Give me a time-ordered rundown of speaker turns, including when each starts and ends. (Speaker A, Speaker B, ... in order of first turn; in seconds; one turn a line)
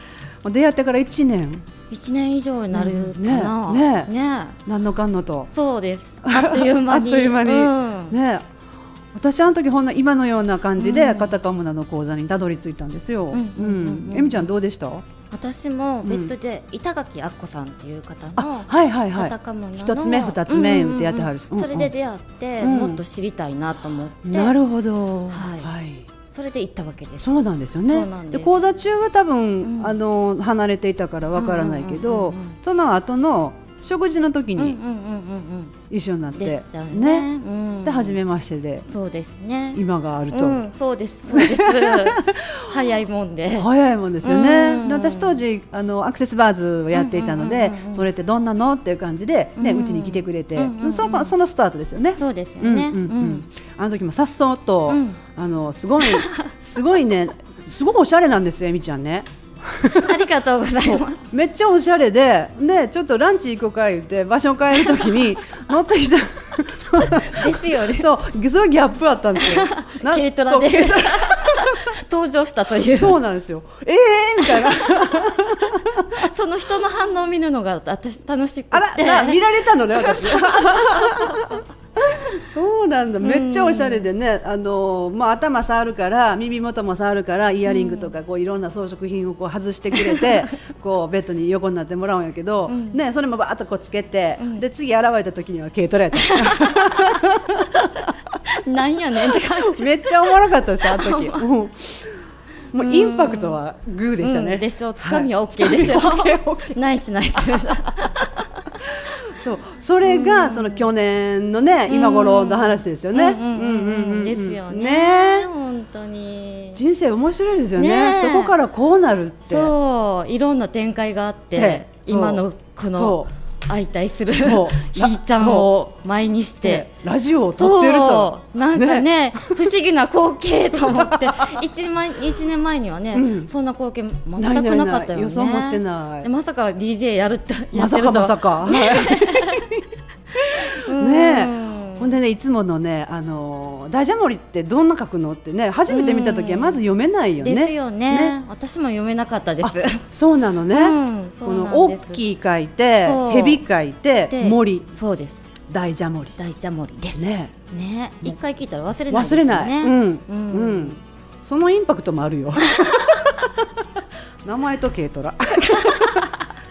Speaker A: 0.4-1.6
Speaker B: 1.9-4.6
Speaker A: 2.7-4.1
Speaker A: 4.7-5.5
Speaker B: 5.5-8.2
Speaker A: 6.2-8.4
Speaker A: 9.1-15.0
Speaker B: 10.8-11.3
Speaker B: 13.3-14.5
Speaker B: 15.3-24.6
Speaker A: 16.0-16.3
Speaker A: 18.4-21.9
Speaker A: 22.6-23.0
Speaker A: 24.2-26.1
Speaker B: 25.3-25.7
Speaker B: 26.3-27.3
Speaker A: 27.2-34.8
Speaker B: 27.8-28.5
Speaker B: 29.6-29.9
Speaker B: 31.4-32.5
Speaker B: 34.5-35.7
Speaker A: 35.9-37.3
Speaker B: 36.4-38.2
Speaker A: 37.8-38.9
Speaker B: 38.9-43.7
Speaker A: 39.7-40.6
Speaker A: 41.3-42.7
Speaker A: 43.5-60.2
Speaker B: 44.2-45.4
Speaker B: 46.9-48.1
Speaker B: 49.6-51.3
Speaker B: 52.2-53.4
Speaker B: 54.9-55.2
Speaker B: 56.0-56.3
Speaker B: 59.8-61.2
Speaker A: 60.8-72.0
Speaker B: 67.0-68.1
Speaker B: 69.4-73.2
Speaker A: 72.9-76.2
Speaker B: 74.4-81.5
Speaker A: 78.7-98.1
Speaker B: 83.2-84.1
Speaker B: 87.7-88.1
Speaker B: 89.9-90.5
Speaker B: 92.7-93.0
Speaker B: 94.4-94.7
Speaker B: 96.2-97.0
Speaker B: 98.5-101.5
Speaker A: 99.3-102.2
Speaker A: 102.7-106.8
Speaker B: 102.8-103.6
Speaker B: 104.2-108.6
Speaker A: 108.8-115.5
Speaker B: 110.0-110.9
Speaker B: 111.9-116.8
Speaker A: 116.7-119.7
Speaker B: 117.8-118.5
Speaker B: 119.5-126.9
Speaker A: 121.6-122.4
Speaker A: 122.9-123.3
Speaker A: 124.4-125.7
Speaker A: 126.6-129.7
Speaker B: 127.5-139.7
Speaker A: 130.9-131.6
Speaker A: 133.1-133.5
Speaker A: 134.4-136.3
Speaker A: 137.7-148.4
Speaker B: 140.6-142.1
Speaker B: 145.9-146.8
Speaker B: 147.4-150.0
Speaker A: 149.6-154.9
Speaker B: 150.7-152.2
Speaker B: 153.0-153.6
Speaker B: 154.3-155.5
Speaker A: 155.7-156.4
Speaker B: 156.4-161.0
Speaker A: 157.1-157.5
Speaker A: 159.1-163.5
Speaker B: 162.7-163.0
Speaker A: 164.4-166.3
Speaker B: 165.7-166.3